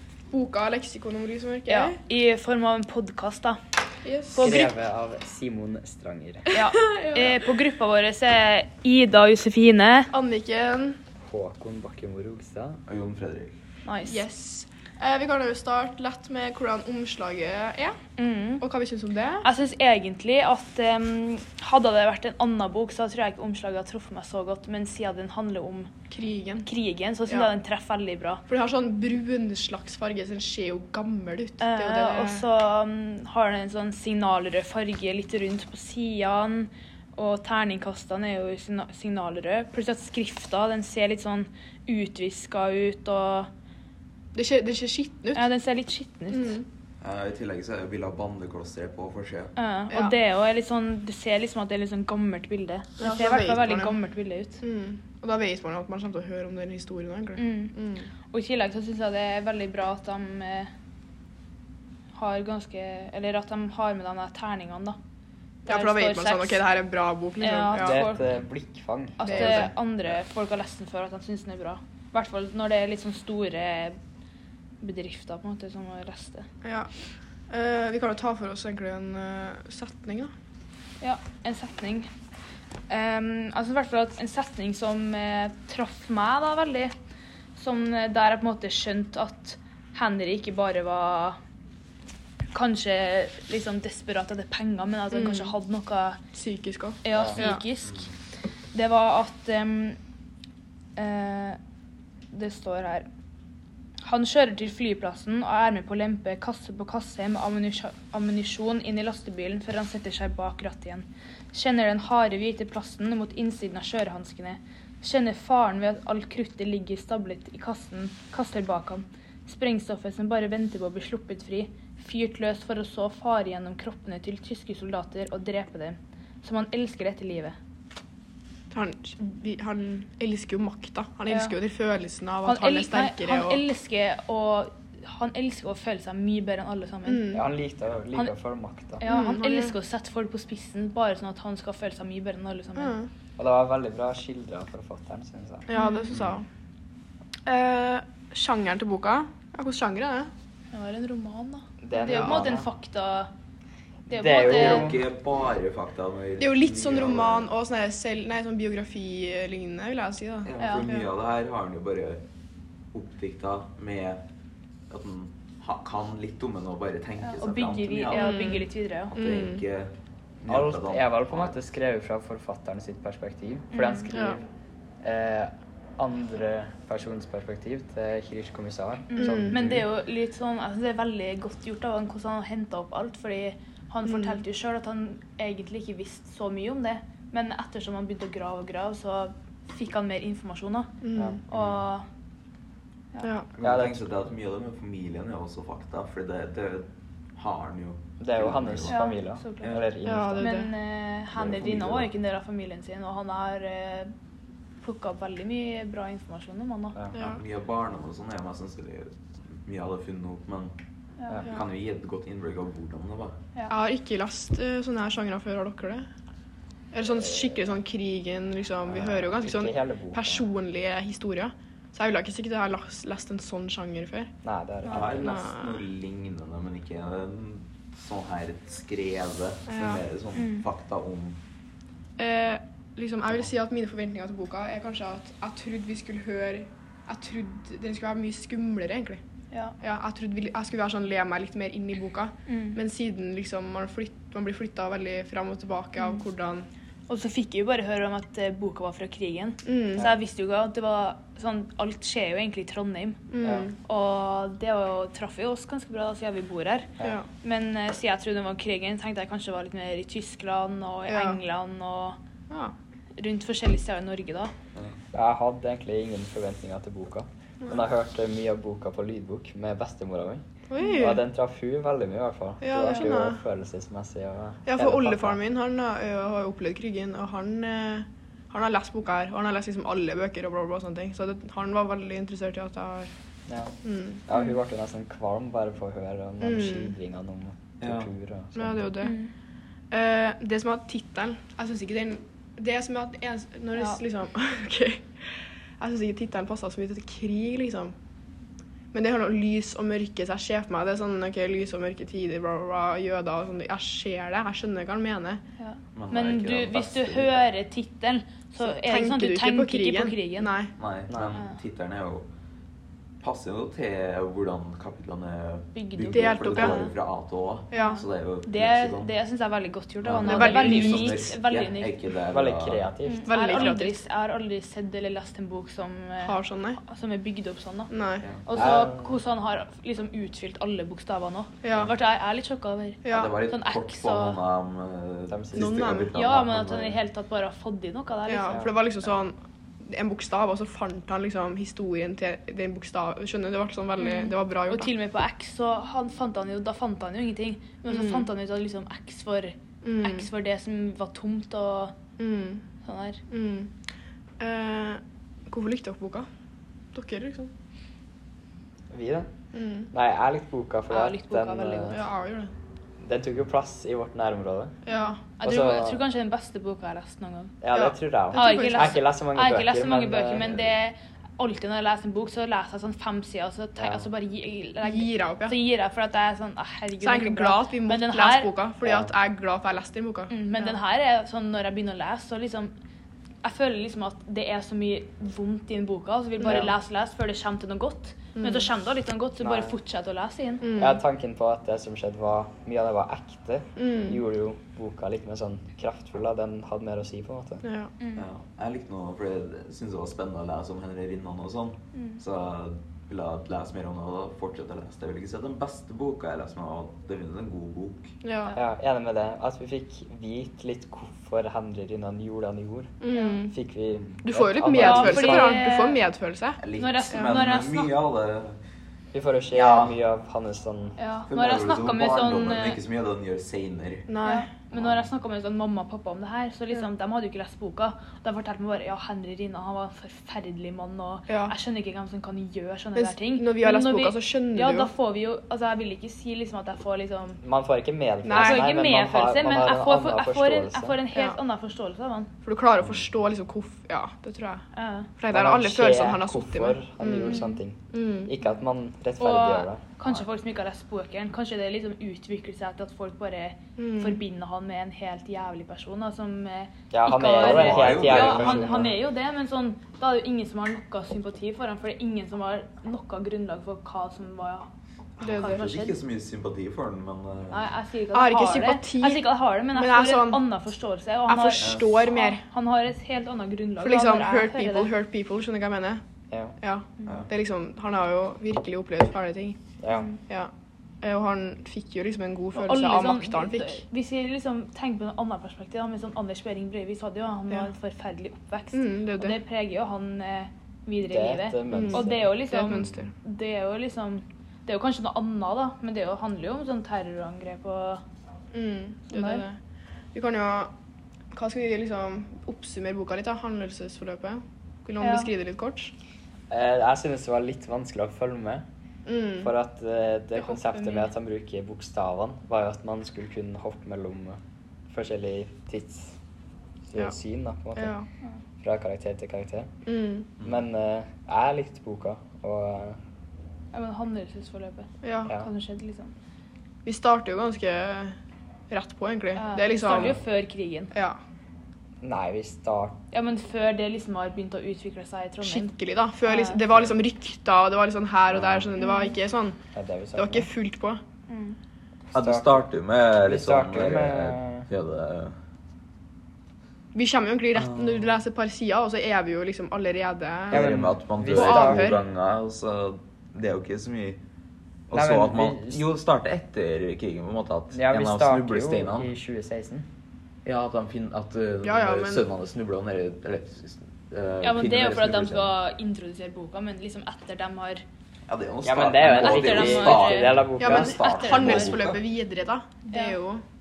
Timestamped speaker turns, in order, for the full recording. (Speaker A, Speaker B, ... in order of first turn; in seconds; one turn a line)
Speaker A: 0.3-2.0
Speaker B: 1.7-3.6
Speaker A: 4.0-4.6
Speaker B: 4.3-4.7
Speaker C: 4.4-6.5
Speaker B: 6.5-10.1
Speaker A: 6.7-7.5
Speaker A: 10.1-11.0
Speaker C: 11.2-12.8
Speaker D: 12.9-13.5
Speaker B: 13.8-14.2
Speaker A: 14.0-18.0
Speaker B: 18.2-18.6
Speaker A: 18.6-19.4
Speaker B: 19.4-25.9
Speaker A: 26.1-26.7
Speaker B: 26.6-28.4
Speaker A: 28.5-32.5
Speaker B: 31.6-43.5
Speaker A: 44.3-45.4
Speaker B: 45.3-46.6
Speaker A: 46.3-46.6
Speaker D: 47.0-49.5
Speaker B: 49.5-54.6
Speaker A: 53.0-54.0
Speaker A: 54.6-58.1
Speaker B: 57.4-57.7
Speaker B: 58.3-60.7
Speaker B: 62.1-65.0
Speaker B: 65.7-66.6
Speaker A: 65.7-68.0
Speaker B: 67.4-68.3
Speaker C: 67.8-69.7
Speaker B: 69.2-74.0
Speaker A: 69.3-69.7
Speaker B: 74.8-76.5
Speaker A: 76.6-76.9
Speaker A: 77.5-80.3
Speaker B: 81.0-82.1
Speaker B: 82.9-86.9
Speaker B: 87.5-91.4
Speaker B: 92.5-96.2
Speaker A: 95.1-95.5
Speaker A: 96.3-97.6
Speaker B: 97.0-98.1
Speaker C: 97.1-97.4
Speaker D: 97.8-98.1
Speaker B: 98.7-100.0
Speaker B: 101.0-101.6
Speaker B: 102.3-103.1
Speaker B: 104.0-127.5
Speaker A: 128.7-133.6
Speaker B: 131.3-131.6
Speaker B: 132.4-137.4
Speaker A: 137.1-137.4
Speaker C: 137.3-139.0
Speaker B: 139.0-143.0
Speaker A: 139.0-139.7
Speaker A: 142.8-143.1
Speaker C: 143.4-145.7
Speaker A: 145.7-146.4
Speaker B: 145.7-146.1
Speaker A: 147.4-150.3
Speaker B: 150.7-153.3
Speaker C: 151.8-152.7
Speaker A: 152.0-152.4
Speaker C: 154.1-155.0
Speaker B: 154.1-154.9
Speaker D: 154.4-157.5
Speaker A: 156.4-161.1
Speaker D: 160.4-162.2
Speaker B: 160.6-160.9
Speaker D: 162.9-164.2
Speaker D: 164.9-171.5
Speaker B: 167.2-169.1
Speaker A: 168.1-168.6
Speaker A: 169.2-169.6
Speaker C: 170.5-174.4
Speaker B: 173.7-174.1
Speaker A: 174.1-174.4
Speaker C: 175.0-179.8
Speaker B: 179.1-190.9
Speaker A: 179.2-179.6
Speaker A: 184.1-184.4
Speaker A: 191.0-191.4
Speaker B: 191.5-192.1
Speaker D: 191.5-191.8
Speaker A: 193.2-193.5
Speaker D: 193.6-199.0
Speaker C: 193.6-194.1
Speaker C: 198.2-200.6
Speaker B: 198.9-204.1
Speaker A: 200.0-200.7
Speaker D: 201.3-202.1
Speaker B: 204.8-207.0
Speaker A: 207.1-207.4
Speaker D: 207.2-210.7
Speaker D: 211.4-213.3
Speaker A: 213.7-216.1
Speaker A: 216.9-224.3
Speaker C: 217.2-217.6
Speaker C: 218.8-220.4
Speaker C: 224.4-225.4
Speaker D: 224.9-231.4
Speaker A: 224.9-225.8
Speaker A: 229.7-230.0
Speaker B: 230.3-230.6
Speaker A: 232.2-239.2
Speaker A: 239.8-246.7
Speaker B: 242.5-242.8
Speaker B: 247.1-253.3
Speaker A: 249.6-250.1
Speaker A: 253.3-253.7
Speaker C: 253.4-253.7
Speaker B: 253.8-256.9
Speaker B: 257.4-262.2
Speaker A: 261.1-261.4
Speaker B: 263.2-264.5
Speaker C: 265.1-270.4
Speaker A: 270.7-271.2
Speaker C: 270.9-275.4
Speaker A: 272.6-273.4
Speaker A: 274.6-283.1
Speaker C: 283.5-283.7
Speaker A: 283.8-284.2
Speaker C: 284.3-288.9
Speaker A: 286.4-286.9
Speaker D: 287.8-288.1
Speaker A: 288.5-289.1
Speaker B: 289.0-289.3
Speaker A: 289.9-297.9
Speaker B: 293.7-294.0
Speaker A: 298.9-305.4
Speaker B: 305.6-310.5
Speaker D: 305.9-307.4
Speaker A: 308.6-310.7
Speaker D: 310.8-312.2
Speaker C: 311.1-311.4
Speaker D: 313.2-319.1
Speaker B: 315.7-316.9
Speaker A: 316.1-316.9
Speaker A: 317.7-318.0
Speaker B: 317.7-321.9
Speaker D: 320.0-322.9
Speaker A: 320.2-321.2
Speaker C: 322.3-323.3
Speaker B: 323.0-327.9
Speaker A: 323.2-323.9
Speaker A: 326.2-326.8
Speaker A: 327.9-328.2
Speaker D: 328.2-328.8
Speaker B: 328.4-334.4
Speaker C: 328.5-329.1
Speaker A: 331.6-331.9
Speaker A: 333.0-333.3
Speaker D: 333.1-337.0
Speaker C: 335.3-335.9
Speaker A: 335.5-336.1
Speaker B: 336.1-338.7
Speaker A: 338.3-344.9
Speaker B: 344.0-351.9
Speaker A: 347.9-348.3
Speaker A: 349.8-350.3
Speaker A: 352.2-352.6
Speaker B: 352.8-353.2
Speaker A: 353.3-353.7
Speaker A: 354.4-356.3
Speaker A: 356.9-357.5
Speaker C: 358.9-359.3
Speaker A: 359.5-359.9
Speaker C: 359.9-362.0
Speaker B: 360.9-362.0
Speaker A: 361.9-362.5
Speaker C: 363.0-364.7
Speaker A: 364.8-365.2
Speaker B: 364.9-367.5
Speaker C: 365.4-366.0
Speaker C: 367.6-370.5
Speaker A: 367.7-369.0
Speaker B: 368.3-378.5
Speaker C: 373.8-374.0
Speaker A: 374.8-375.6
Speaker A: 377.0-380.7
Speaker C: 378.8-379.1
Speaker B: 380.3-382.7
Speaker B: 383.4-390.6
Speaker C: 386.4-386.7
Speaker A: 388.4-388.7
Speaker C: 389.4-389.8
Speaker A: 390.6-391.0
Speaker C: 390.8-397.6
Speaker A: 393.8-394.2
Speaker A: 397.6-397.9
Speaker B: 398.0-398.2
Speaker D: 398.1-408.1
Speaker A: 408.2-408.5
Speaker C: 408.6-412.9
Speaker A: 413.0-413.6
Speaker B: 413.1-413.4
Speaker C: 413.5-415.6
Speaker A: 414.2-416.6
Speaker B: 414.7-416.0
Speaker D: 416.6-418.6
Speaker B: 416.7-417.9
Speaker C: 419.1-421.0
Speaker D: 419.5-419.9
Speaker B: 421.0-422.8
Speaker D: 421.3-424.1
Speaker A: 424.1-424.5
Speaker B: 424.2-437.4
Speaker D: 424.7-425.0
Speaker A: 431.3-431.5
Speaker A: 432.9-434.9
Speaker C: 437.4-441.0
Speaker A: 438.2-438.7
Speaker B: 438.3-442.3
Speaker A: 442.4-444.6
Speaker D: 442.8-443.1
Speaker B: 444.7-445.1
Speaker A: 445.2-448.3
Speaker C: 445.3-449.8
Speaker B: 447.3-447.5
Speaker B: 449.2-464.7
Speaker A: 453.8-454.2
Speaker C: 456.9-458.9
Speaker D: 457.4-458.9
Speaker A: 465.2-465.6
Speaker D: 465.2-467.7
Speaker B: 465.3-466.0
Speaker B: 467.5-474.9
Speaker A: 468.1-470.4
Speaker A: 471.3-472.4
Speaker D: 471.6-471.9
Speaker A: 473.8-476.0
Speaker C: 476.3-476.6
Speaker A: 476.6-479.6
Speaker D: 477.0-477.3
Speaker C: 479.8-480.1
Speaker A: 480.2-480.5
Speaker A: 481.0-483.8
Speaker B: 482.5-498.0
Speaker A: 488.7-489.4
Speaker C: 491.1-492.3
Speaker A: 491.7-493.1
Speaker D: 492.7-493.1
Speaker A: 498.5-499.6
Speaker B: 499.1-499.4
Speaker A: 500.1-500.7
Speaker A: 501.3-505.9
Speaker B: 505.0-505.3
Speaker C: 506.5-508.6
Speaker A: 509.1-509.5
Speaker C: 509.4-516.1
Speaker B: 510.5-511.1
Speaker C: 516.9-517.9
Speaker A: 517.8-518.1
Speaker C: 518.6-519.7
Speaker A: 519.9-520.3
Speaker C: 520.4-523.0
Speaker B: 523.7-526.1
Speaker A: 525.0-525.3
Speaker A: 526.8-528.1
Speaker A: 528.7-530.2
Speaker B: 529.4-530.9
Speaker A: 530.9-531.2
Speaker C: 532.0-533.0
Speaker B: 533.1-535.7
Speaker A: 535.4-539.6
Speaker B: 536.2-536.6
Speaker D: 538.3-538.7
Speaker B: 538.8-539.1
Speaker C: 539.7-540.5
Speaker A: 540.1-541.0
Speaker B: 541.3-541.6
Speaker D: 542.1-545.4
Speaker C: 542.1-542.6
Speaker C: 543.2-544.7
Speaker A: 546.9-550.7
Speaker D: 547.5-548.1
Speaker D: 550.5-554.2
Speaker C: 550.5-552.0
Speaker A: 551.3-552.0
Speaker D: 554.9-559.1
Speaker C: 554.9-555.8
Speaker C: 557.7-559.9
Speaker D: 560.4-565.5
Speaker A: 561.6-562.2
Speaker B: 564.4-567.8
Speaker D: 568.3-572.0
Speaker C: 568.6-571.0
Speaker B: 569.0-571.7
Speaker A: 570.6-573.4
Speaker B: 572.9-573.2